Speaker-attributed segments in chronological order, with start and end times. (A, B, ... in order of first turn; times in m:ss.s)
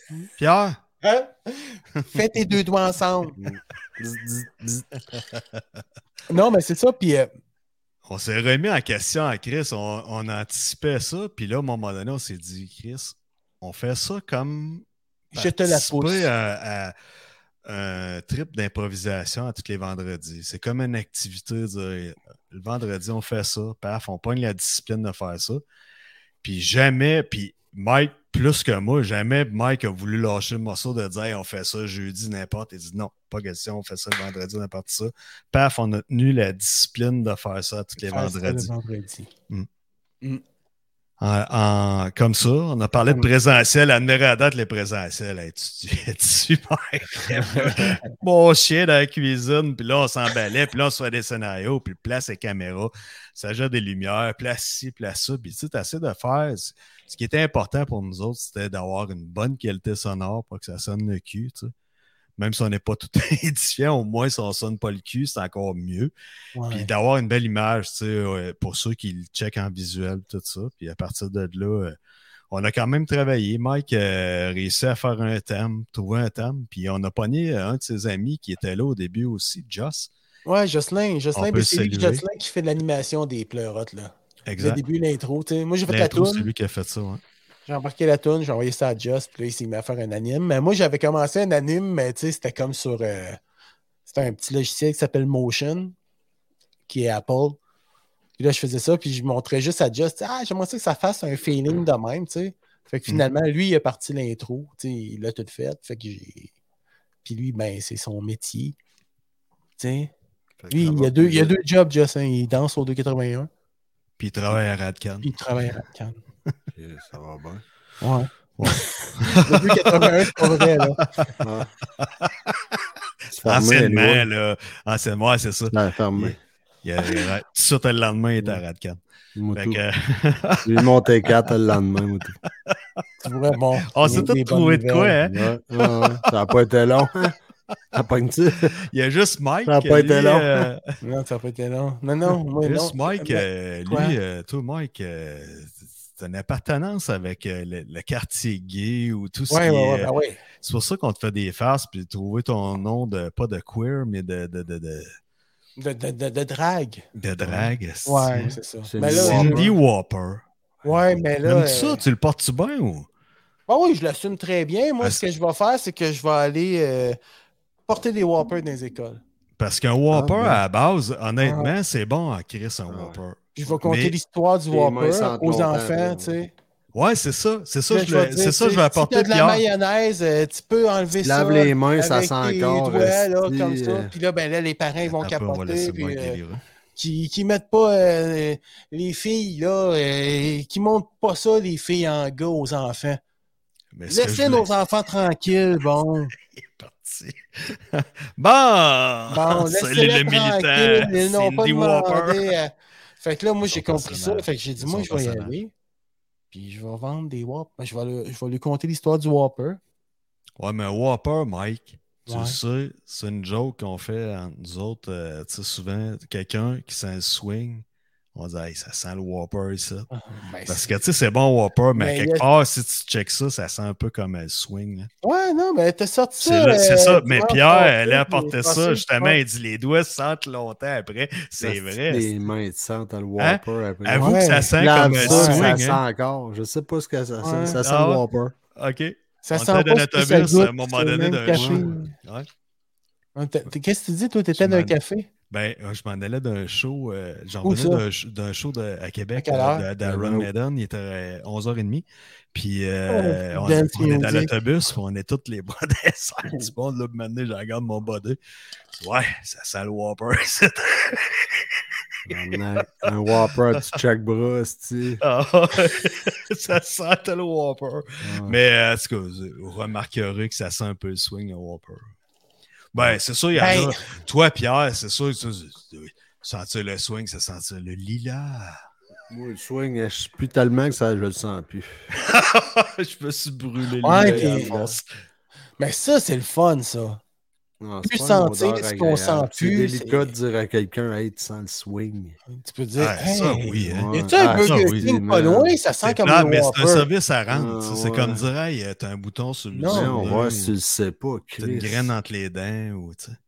0:00.4-0:00.8 A
0:01.0-0:03.4 B
0:03.4-0:04.9 C
0:05.1-0:05.6 A
0:06.3-0:07.3 B
0:08.0-0:16.9 A
0:15.3-0:16.3 B
0:17.6-0:25.6 A
0:26.4-0:38.7 A
0:38.0-0:39.3 B
0:41.2-1:01.7 A
0:47.5-0:48.0 B
1:02.4-1:06.1 A
1:06.5-1:06.9 B
1:06.7-1:12.0 A
1:12.5-1:20.1 A
1:20.4-1:26.5 B
1:21.3-1:22.2 A
1:24.4-1:24.8 A
1:25.9-1:27.2 A
1:27.6-1:33.4 B
1:34.0-1:35.9 B
1:36.9-1:37.6 B
1:38.4-1:46.5 B
1:47.2-1:48.8 B
1:49.8-1:50.1 B
1:50.6-1:51.5 C
1:50.7-1:53.5 B
1:54.2-1:55.3 A
1:55.2-1:56.2 B
1:56.7-1:57.6 C
1:58.0-2:01.3 B
1:58.6-2:01.3 A
2:01.4-2:01.7 C
2:02.0-2:02.5 A
2:03.3-2:04.3 C
2:03.4-2:09.0 A
2:05.7-2:06.4 C
2:09.4-2:09.8 C
2:09.5-2:11.5 A
2:10.6-2:12.4 C
2:12.6-2:13.0 A
2:13.2-2:15.2 B
2:13.9-2:16.3 A
2:15.3-2:17.3 C
2:17.9-2:18.8 C
2:18.8-2:21.0 A
2:19.6-2:20.7 C
2:21.0-2:24.2 B
2:22.6-2:35.1 A
2:29.5-2:30.4 B
2:35.8-2:37.0 B
2:37.2-2:40.4 A
2:37.4-2:37.7 C
2:38.0-2:39.7 B
2:38.5-2:39.7 C
2:40.8-2:42.0 B
2:41.4-2:43.1 A
2:43.7-2:47.2 B
2:47.9-2:49.2 B
2:49.6-2:54.2 A
2:50.1-2:50.6 C
2:51.4-2:51.7 B
2:52.9-2:53.2 C
2:53.6-2:56.5 B
2:54.7-2:56.4 C
2:56.9-2:59.6 A
2:57.9-3:06.4 B
3:01.2-3:04.1 C
3:05.1-3:06.6 A
3:07.0-3:13.2 B
3:13.9-3:14.7 A
3:14.1-3:16.3 B
3:16.5-3:22.5 A
3:19.3-3:25.7 B
3:23.7-3:25.6 A
3:26.5-3:29.8 B
3:30.6-3:40.1 A
3:32.3-3:32.6 B
3:40.1-3:40.9 B
3:40.7-3:45.1 A
3:42.0-3:42.5 B
3:45.2-3:49.4 B
3:46.4-3:52.3 A
3:51.6-3:58.5 C
3:53.4-3:56.0 A
3:54.1-3:55.7 B
3:57.4-3:57.8 B
3:57.8-3:58.2 A
3:58.7-4:02.5 A
3:59.4-4:02.1 B
4:01.5-4:01.9 C
4:03.4-4:05.3 B
4:04.6-4:05.0 A
4:05.5-4:18.4 A
4:07.6-4:08.0 B
4:09.4-4:09.9 B
4:10.0-4:10.5 C
4:13.1-4:14.5 B
4:19.0-4:21.7 A
4:22.2-4:25.2 C
4:22.3-4:23.9 A
4:25.2-4:32.1 A
4:28.2-4:28.6 C
4:32.9-4:38.8 A
4:33.6-4:34.0 B
4:39.3-4:41.9 C
4:42.1-4:45.0 A
4:44.0-4:44.7 B
4:44.1-4:45.0 C
4:45.8-4:47.2 B
4:47.8-4:52.4 C
4:48.0-4:50.3 B
4:52.5-4:57.1 B
4:53.0-4:54.1 A
4:53.8-4:55.8 C
4:54.6-4:55.0 A
4:56.0-5:00.7 A
4:57.5-4:58.5 C
4:59.7-5:00.2 B
4:59.9-5:02.1 C
5:01.6-5:03.4 A